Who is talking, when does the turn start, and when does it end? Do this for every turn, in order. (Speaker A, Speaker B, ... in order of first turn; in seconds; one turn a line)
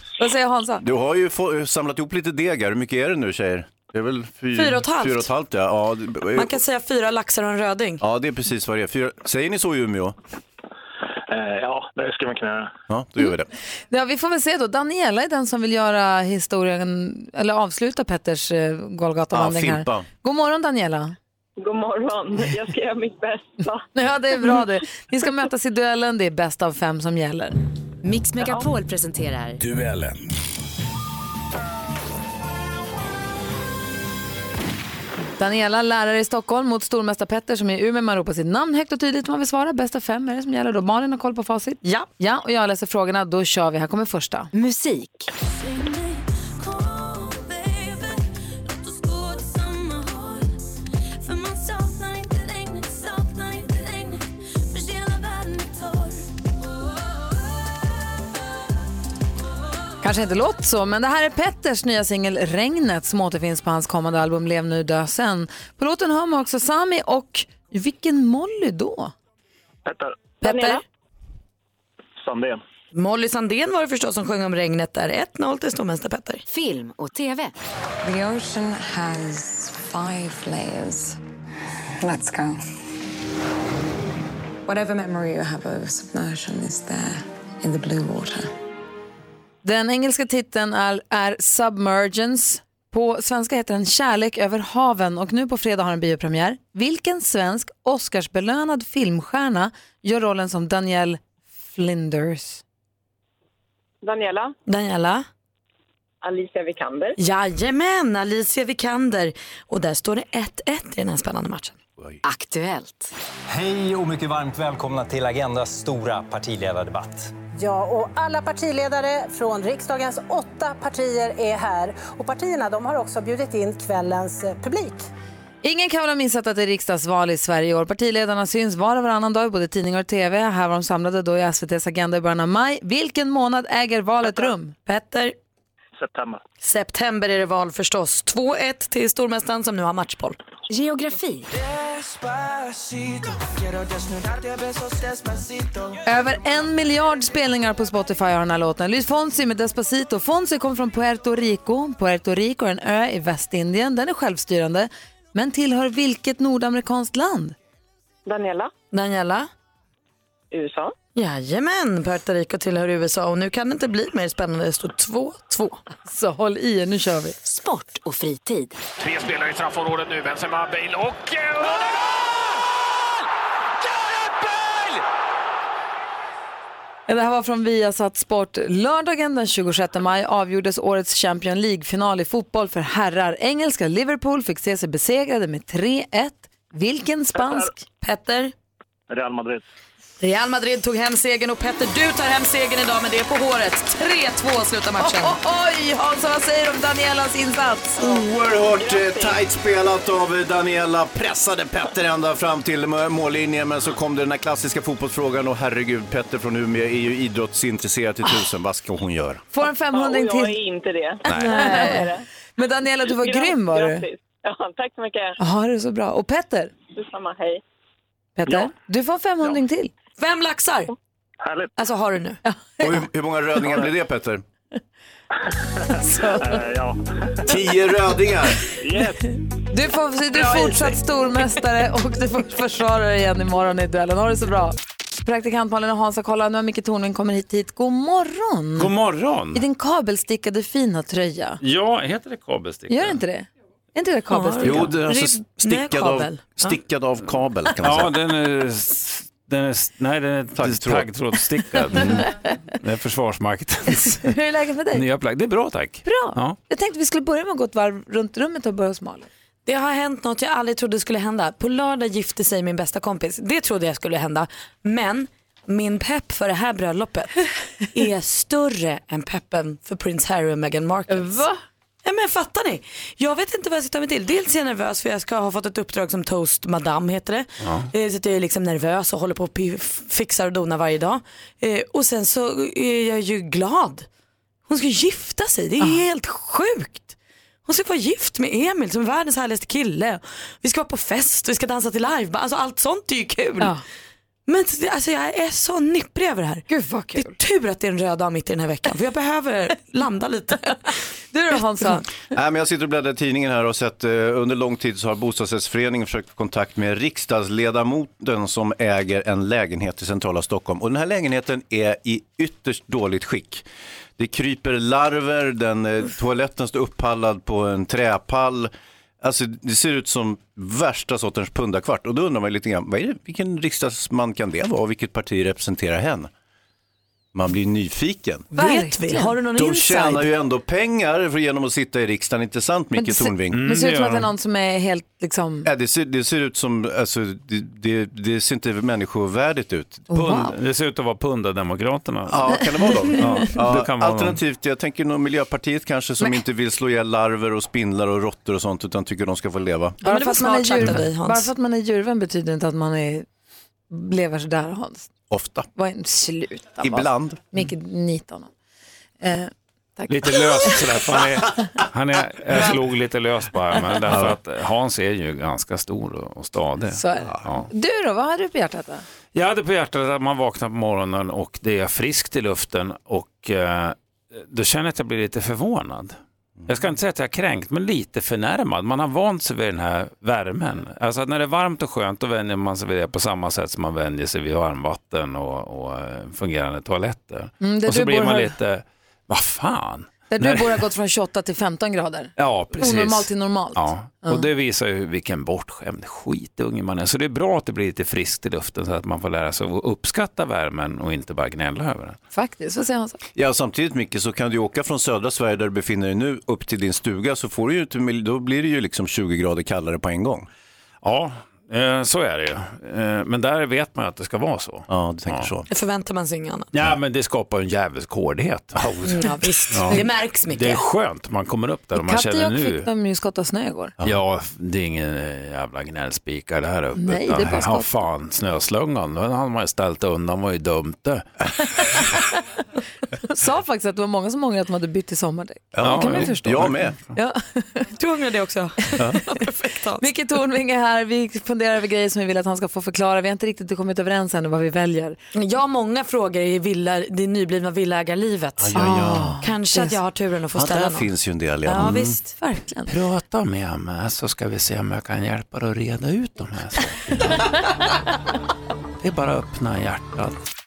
Speaker A: 0.2-0.8
Speaker B: 0.8-6.6
Speaker C: 4.5-5.3
Speaker C: 6.3-8.0
Speaker B: 8.0-10.2
Speaker D: 11.3-12.7
Speaker B: 12.9-13.5
Speaker A: 13.9-21.2
Speaker B: 19.3-20.1
Speaker E: 21.6-23.9
Speaker A: 23.9-27.6
Speaker F: 28.0-29.6
Speaker E: 28.4-28.7
Speaker G: 29.8-30.1
Speaker A: 35.4-44.5
Speaker F: 44.5-45.3
Speaker C: 46.6-48.1
Speaker C: 48.9-50.4
Speaker C: 51.3-54.2
Speaker C: 54.8-55.8
Speaker A: 60.0-69.1
Speaker D: 69.9-70.1
Speaker A: 70.4-70.8
Speaker E: 70.4-70.8
Speaker D: 72.2-72.6
Speaker C: 72.9-76.4
Speaker F: 76.5-77.5
Speaker H: 78.0-81.2
Speaker H: 82.0-82.6
Speaker H: 84.7-88.5
Speaker A: 89.6-102.6
Speaker E: 104.0-104.5
Speaker C: 104.7-105.2
Speaker E: 106.2-107.2
Speaker C: 107.2-111.8
Speaker F: 112.2-113.1
Speaker I: 113.5-117.3
Speaker J: 117.6-125.0
Speaker A: 125.6-134.8
Speaker C: 134.9-135.3
Speaker D: 136.0-136.4
Speaker C: 136.6-140.4
Speaker F: 140.7-141.5
Speaker A: 146.0-157.6
Speaker E: 158.3-158.7
Speaker C: 158.9-159.5
Speaker E: 160.5-160.9
Speaker C: 161.2-165.8
Speaker A: 166.1-167.3
Speaker F: 167.4-168.8
Speaker K: 169.0-172.0
Speaker A: 177.1-187.8
Speaker C: 188.0-188.5
Speaker D: 189.1-189.6
Speaker C: 190.2-195.4
Speaker A: 195.0-198.1
Speaker B: 198.0-209.4
Speaker E: 198.8-199.4
Speaker A: 209.5-210.6
Speaker E: 209.9-212.2
Speaker A: 211.5-214.1
Speaker E: 213.1-215.4
Speaker A: 215.4-216.7
Speaker E: 216.9-217.6
Speaker A: 218.4-219.9
Speaker C: 220.2-220.9
Speaker D: 221.4-221.7
Speaker C: 221.8-222.4
Speaker A: 222.4-223.0
Speaker B: 222.8-224.4
Speaker A: 225.9-226.6
Speaker D: 226.4-227.0
Speaker B: 227.4-228.6
Speaker D: 228.8-229.2
Speaker A: 229.7-238.9
Speaker G: 238.8-239.6
Speaker A: 239.5-241.6
Speaker G: 241.6-243.2
Speaker A: 242.9-244.9
Speaker C: 244.3-246.8
Speaker B: 244.6-248.2
Speaker G: 247.8-254.3
Speaker B: 250.5-251.1
Speaker A: 252.0-252.3
Speaker A: 253.9-255.1
Speaker G: 254.9-256.6
Speaker A: 256.1-259.3
Speaker C: 259.7-271.4
Speaker A: 271.1-271.6
Speaker C: 272.0-284.1
Speaker G: 277.6-277.9
Speaker C: 284.7-287.1
Speaker C: 287.7-293.8
Speaker C: 294.5-301.0
Speaker A: 296.7-297.4
Speaker A: 301.3-302.0
Speaker B: 302.3-313.7
Speaker B: 314.2-326.3
Speaker B: 327.3-328.5
Speaker A: 328.6-329.3
Speaker C: 328.6-330.3
Speaker B: 329.6-333.7
Speaker A: 332.9-335.7
Speaker G: 333.5-334.3
Speaker B: 335.6-340.1
Speaker A: 340.1-340.6
Speaker G: 340.1-342.6
Speaker B: 342.3-350.0
Speaker G: 343.1-344.4
Speaker C: 350.0-351.5
Speaker A: 350.0-353.3
Speaker A: 353.9-355.1
Speaker B: 355.3-355.7
Speaker A: 355.8-358.5
Speaker B: 356.8-357.4
Speaker A: 359.2-360.7
Speaker G: 360.1-367.7
Speaker B: 364.0-364.4
Speaker A: 366.9-369.0
Speaker G: 369.3-390.8
Speaker B: 376.6-376.9
Speaker A: 387.6-388.6
Speaker A: 390.3-394.5
Speaker G: 392.4-402.2
Speaker A: 402.3-403.2
Speaker B: 403.4-410.5
Speaker G: 411.0-415.5
Speaker B: 414.9-415.7
Speaker C: 415.7-416.7
Speaker G: 416.7-422.9
Speaker C: 419.1-420.8
Speaker A: 422.0-423.9
Speaker G: 424.0-431.3
Speaker A: 426.9-427.9
Speaker A: 433.2-437.9
Speaker B: 435.7-437.0
Speaker G: 435.8-436.9
Speaker C: 437.9-440.1
Speaker A: 440.0-445.2
Speaker C: 445.4-451.1
Speaker B: 448.6-449.4
Speaker A: 448.8-450.0
Speaker B: 450.6-452.1
Speaker C: 451.7-452.3
Speaker A: 451.8-452.9
Speaker G: 452.9-457.6
Speaker G: 459.0-460.4